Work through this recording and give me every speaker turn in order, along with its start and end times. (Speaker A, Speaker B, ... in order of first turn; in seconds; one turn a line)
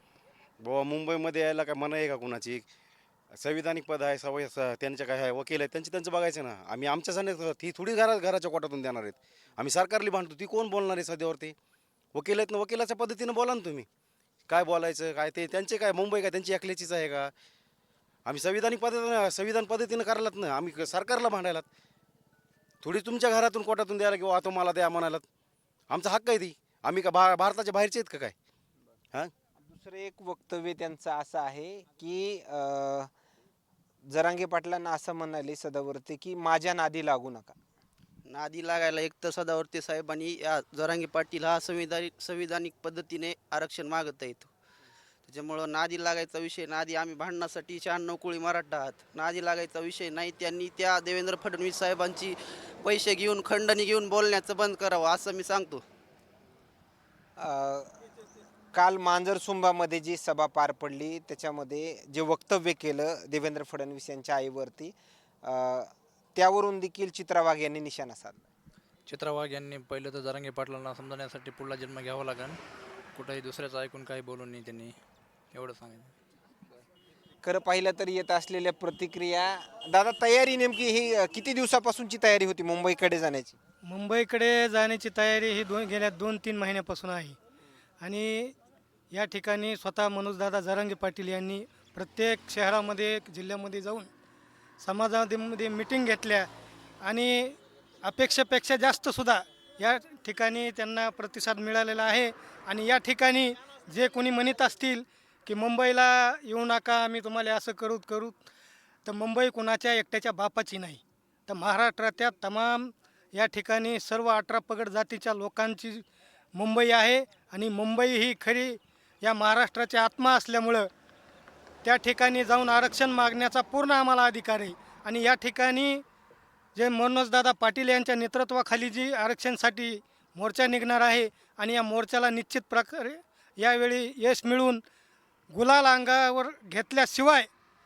Speaker A: 0.6-2.6
Speaker A: 3.3-11.6
Speaker A: 12.1-13.9
Speaker A: 14.5-17.3
Speaker A: 18.2-21.7
Speaker A: 22.8-25.2
Speaker A: 25.9-28.3
Speaker B: 29.6-33.1
Speaker B: 34.1-37.6
Speaker C: 38.3-44.5
Speaker C: 45.3-55.8
Speaker B: 57.4-57.9
Speaker B: 58.7-68.5
Speaker D: 69.1-72.6
Speaker D: 73.1-75.0
Speaker D: 75.5-76.1
Speaker B: 77.4-83.6
Speaker E: 83.8-87.4
Speaker E: 88.0-88.5
Speaker E: 89.1-94.1
Speaker E: 94.8-96.5
Speaker E: 97.0-108.4
Speaker E: 109.1-120.9
Speaker E: 121.8-126.0
Speaker E: 126.8-134.8
Speaker E: 135.5-137.5